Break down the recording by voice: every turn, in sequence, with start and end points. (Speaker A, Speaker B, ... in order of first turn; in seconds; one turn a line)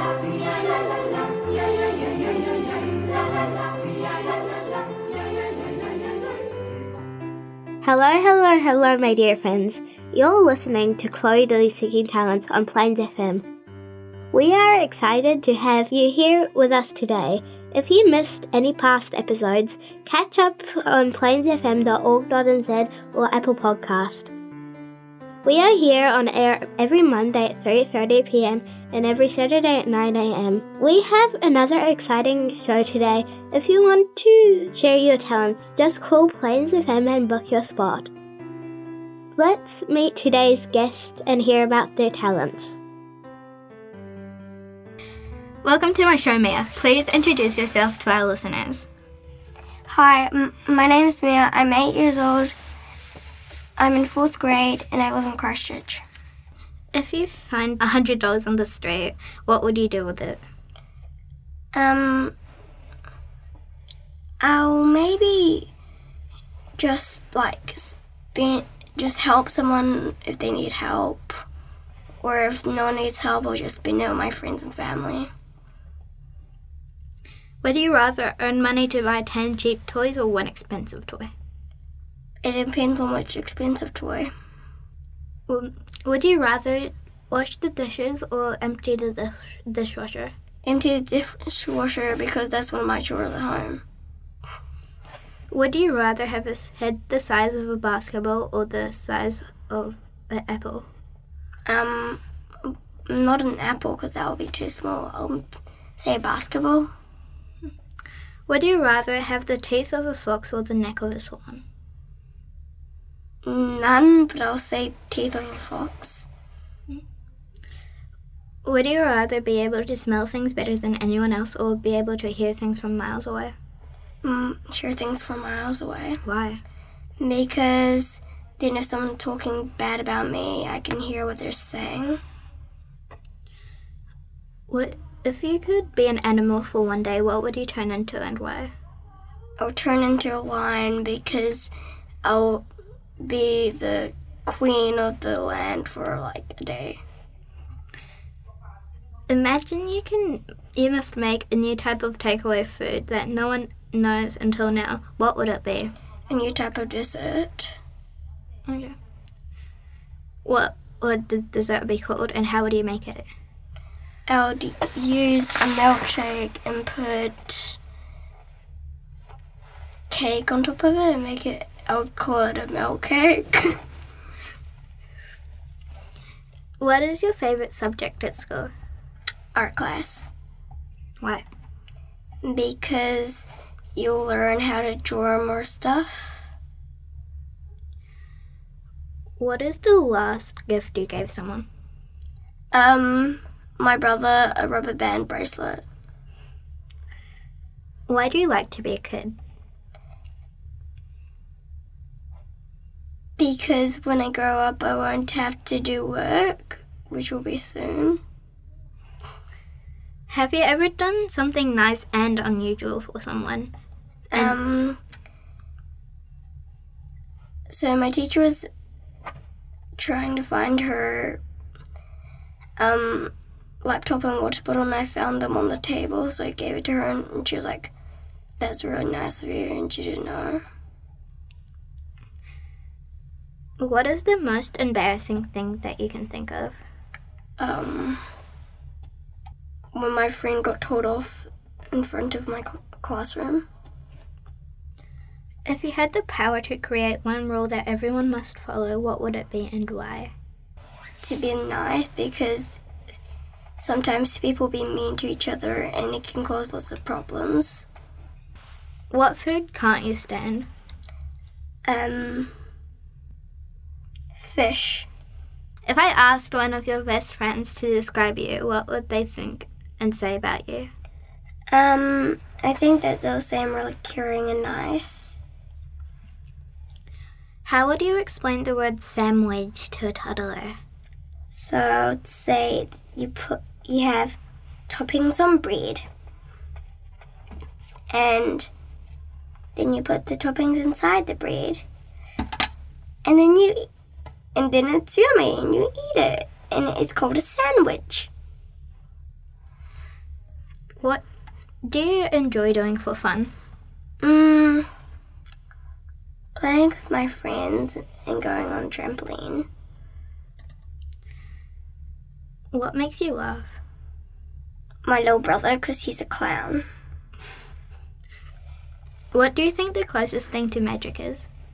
Speaker A: 7.8-13.4
Speaker A: 14.3-24.3
Speaker A: 25.4-38.1
Speaker A: 39.4-42.8
Speaker B: 45.6-48.9
Speaker C: 49.9-52.5
Speaker C: 53.8-56.0
Speaker B: 56.9-60.4
Speaker C: 61.7-62.3
Speaker C: 64.4-65.7
Speaker C: 66.8-71.4
Speaker C: 72.2-75.3
Speaker B: 77.6-81.3
Speaker C: 82.4-84.3
Speaker B: 85.5-90.3
Speaker C: 90.6-93.8
Speaker B: 95.5-100.9
Speaker C: 101.7-106.9
Speaker B: 108.5-111.6
Speaker C: 113.4-116.3
Speaker B: 118.6-123.5
Speaker C: 124.2-126.2
Speaker B: 126.2-126.6
Speaker C: 127.2-132.2
Speaker B: 134.7-138.7
Speaker C: 139.6-141.7
Speaker C: 142.2-142.6
Speaker C: 143.2-147.0
Speaker B: 149.3-155.9
Speaker C: 156.3-157.8
Speaker B: 158.7-158.9
Speaker B: 160.4-163.3
Speaker C: 164.3-167.8
Speaker C: 170.1-173.7
Speaker B: 176.8-178.7
Speaker C: 179.5-180.3
Speaker C: 182.4-186.5
Speaker B: 189.4-191.7
Speaker C: 192.7-195.8
Speaker B: 198.1-199.3
Speaker C: 203.4-208.2
Speaker B: 210.3-213.7
Speaker C: 214.3-215.0
Speaker C: 217.7-218.7
Speaker C: 220.0-221.4
Speaker C: 222.8-223.3
Speaker C: 223.8-227.9
Speaker C: 228.6-230.6
Speaker B: 233.8-236.8
Speaker C: 237.6-238.2
Speaker C: 239.9-243.7
Speaker B: 245.7-250.3
Speaker C: 251.2-252.8
Speaker C: 253.8-257.9
Speaker B: 259.1-260.7
Speaker C: 261.9-262.5
Speaker C: 264.4-265.1
Speaker B: 265.9-270.9
Speaker C: 271.7-275.4
Speaker B: 277.6-280.8
Speaker C: 281.5-284.4
Speaker C: 284.9-286.1
Speaker C: 288.1-288.7
Speaker C: 289.8-291.8
Speaker C: 293.2-293.9
Speaker C: 294.6-298.3
Speaker B: 301.8-303.5
Speaker C: 304.2-304.9
Speaker C: 306.6-309.7
Speaker B: 312.7-313.8
Speaker C: 315.0-316.9
Speaker B: 319.3-321.5